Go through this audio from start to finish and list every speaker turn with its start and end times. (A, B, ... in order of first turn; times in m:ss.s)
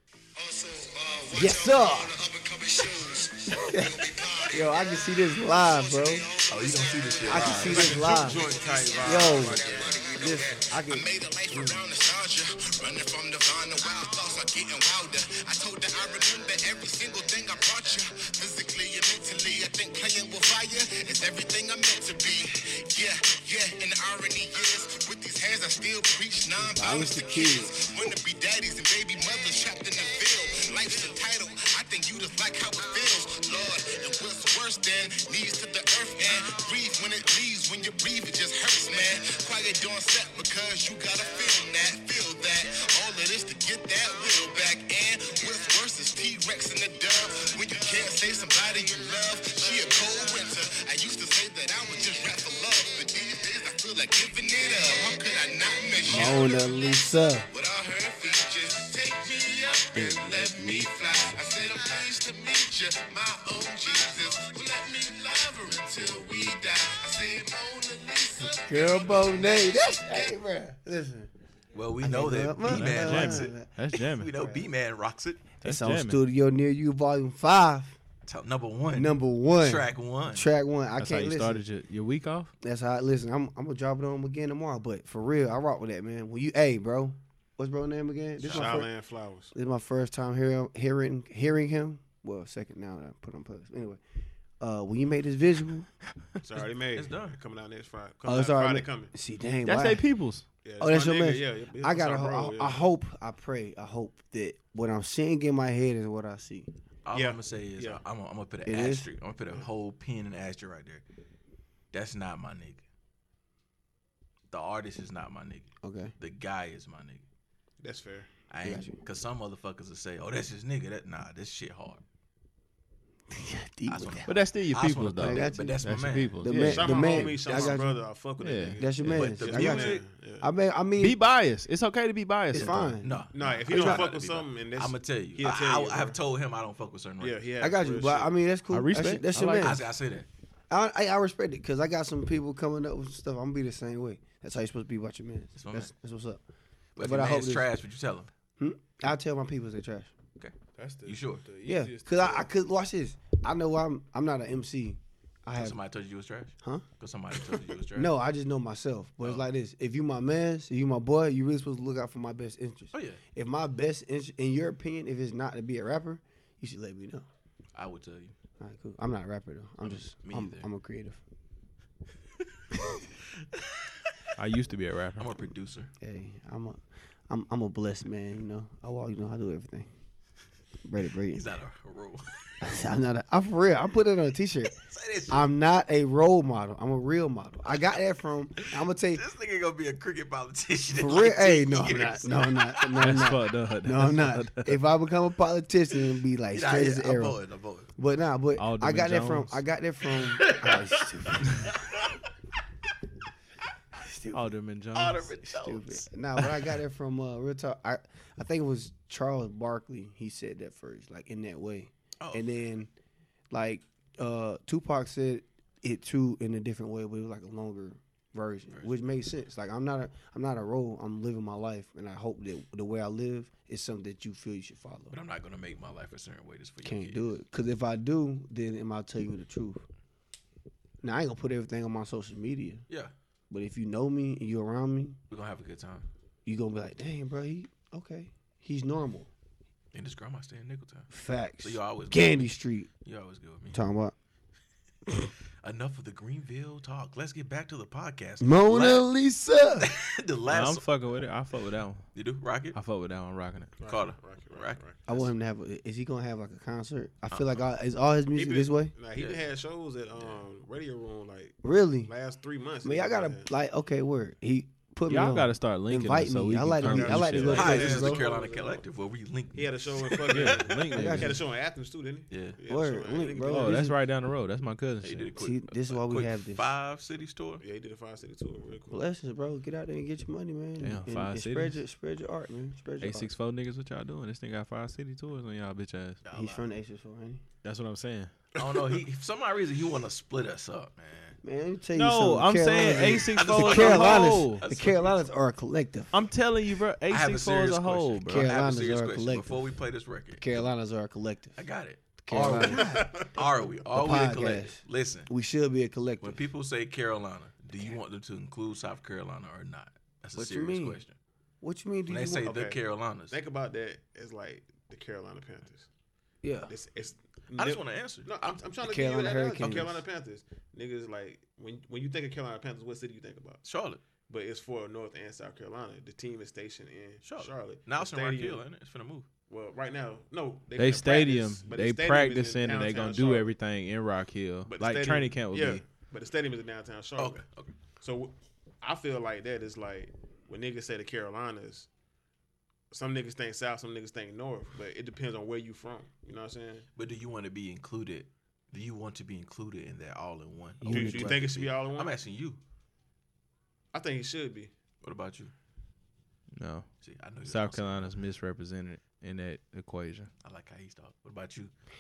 0:00.4-1:10.4 A
0:01.3-0:02.2 B
0:03.6-0:06.2 B
0:06.5-0:08.0 C
0:07.3-0:08.4 B
0:07.6-0:10.2 D
0:09.0-0:11.8 B
0:26.6-0:27.8 B
0:56.0-0:57.5 B
0:59.9-1:01.3 B
1:08.4-1:11.3 B
1:11.7-1:15.5 C
1:12.0-1:13.7 B
1:12.6-1:14.3 E
1:14.3-1:14.7 B
1:15.6-1:16.2 E
1:15.6-1:18.0 B
1:18.3-1:20.5 C
1:18.9-1:21.6 B
1:21.0-1:22.5 E
1:22.6-1:28.9 B
1:28.4-1:28.8 C
1:28.4-1:29.5 D
1:29.5-1:34.0 B
1:34.6-1:35.9 B
1:36.4-1:39.1 D
1:36.6-1:37.4 C
1:38.2-1:40.0 B
1:39.6-1:40.5 E
1:40.6-1:42.8 D
1:40.8-1:46.7 B
1:47.0-1:51.0 C
1:47.1-1:48.0 D
1:48.7-1:49.1 B
1:51.9-1:52.8 C
1:54.5-1:57.2 C
1:55.8-1:56.1 B
1:57.8-1:58.3 D
1:58.5-2:02.0 C
1:58.6-1:59.0 B
2:03.3-2:04.4 B
2:03.9-2:06.4 C
2:04.3-2:07.4 E
2:05.2-2:05.9 B
2:06.4-2:08.0 B
2:06.6-2:10.5 D
2:07.5-2:07.8 C
2:08.4-2:09.2 E
2:08.8-2:11.2 B
2:09.0-2:10.0 C
2:11.0-2:13.0 E
2:12.5-2:14.1 B
2:13.0-2:17.4 C
2:13.3-2:16.2 D
2:17.2-2:18.3 D
2:17.6-2:19.8 B
2:18.7-2:19.8 E
2:19.4-2:20.3 C
2:20.7-2:26.4 B
2:25.6-2:25.9 C
2:27.0-2:28.3 C
2:27.0-2:27.7 B
2:28.6-2:30.1 B
2:30.4-2:31.5 C
2:30.8-2:32.5 D
2:31.6-2:35.8 B
2:35.6-2:38.1 C
2:37.9-2:47.3 B
2:39.2-2:39.5 C
2:42.9-2:43.2 C
2:47.7-2:48.4 C
2:48.6-2:51.2 B
2:49.8-2:50.7 C
2:53.6-2:53.9 C
2:54.4-2:55.3 E
2:55.2-2:55.9 C
2:56.0-2:59.9 B
3:00.8-3:01.5 B
3:01.3-3:02.5 C
3:02.6-3:04.8 B
3:04.7-3:05.5 C
3:05.3-3:09.2 B
3:08.8-3:13.2 C
3:11.0-3:17.4 B
3:13.0-3:14.8 E
3:16.5-3:17.9 C
3:18.0-3:21.7 B
3:18.6-3:19.6 E
3:20.1-3:22.2 C
3:24.0-3:24.4 B
3:24.3-3:25.4 E
3:24.9-3:26.1 C
3:25.6-3:32.9 B
3:32.2-3:32.5 C
3:33.5-3:45.2 B
3:45.1-3:47.4 C
3:46.8-3:49.8 B
3:51.0-3:52.8 B
3:53.5-3:55.2 B
3:55.3-3:56.1 C
3:56.5-3:59.3 B
3:59.9-4:01.1 C
4:01.1-4:02.9 B
4:01.6-4:03.8 C
4:03.7-4:04.1 B
4:05.6-4:09.1 C
4:08.4-4:09.9 B
4:09.8-4:10.9 C
4:10.5-4:12.1 E
4:12.2-4:12.8 C
4:12.7-4:13.7 E
4:13.8-4:15.2 D
4:13.8-4:15.3 C
4:15.1-4:18.9 B
4:17.3-4:17.6 C
4:18.3-4:23.5 D
4:19.1-4:19.5 C
4:20.1-4:20.4 C
4:21.6-4:22.1 B
4:22.8-4:28.2 B
4:25.1-4:28.0 E
4:26.8-4:28.9 D
4:27.4-4:30.8 C
4:29.5-4:33.8 D
4:30.3-4:31.4 E
4:31.0-4:31.4 B
4:32.3-4:32.6 C
4:32.7-4:34.0 B
4:33.5-4:35.3 E
4:35.0-4:37.6 C
4:35.4-4:36.7 B
4:37.6-4:39.0 D
4:38.9-4:43.3 B
4:40.8-4:41.8 E
4:43.0-4:46.2 E
4:46.2-4:46.7 C
4:46.3-4:47.4 B
4:47.6-4:48.3 E
4:48.6-4:49.0 D
4:48.6-4:51.4 C
4:51.4-4:56.2 B
4:52.0-4:54.6 E
4:53.0-4:55.2 C
4:56.1-4:58.5 E
4:57.1-5:00.7 C
4:58.3-4:59.6 B
5:00.4-5:01.6 B
5:01.6-5:05.3 C
5:02.2-5:03.3 B
5:02.4-5:03.3 D
5:03.9-5:06.4 B
5:06.2-5:11.2 C
5:10.3-5:11.0 B
5:11.6-5:12.5 B
5:12.1-5:13.4 C
5:12.4-5:15.9 D
5:16.4-5:16.7 B
5:16.7-5:23.6 D
5:17.6-5:18.6 C
5:18.8-5:20.0 B
5:23.6-5:24.0 C
5:24.3-5:28.6 D
5:27.2-5:29.3 C
5:29.5-5:33.5 D
5:30.8-5:35.8 E
5:34.7-5:37.4 D
5:37.2-5:37.8 C
5:38.0-5:41.9 D
5:42.9-5:46.9 D
5:47.0-5:52.6 C
5:50.8-5:51.4 B
5:50.9-5:52.1 D
5:53.9-5:54.7 D
5:55.0-5:55.5 C
5:56.6-5:56.9 E
5:57.0-5:58.2 C
5:57.4-6:00.3 E
6:00.4-6:01.7 C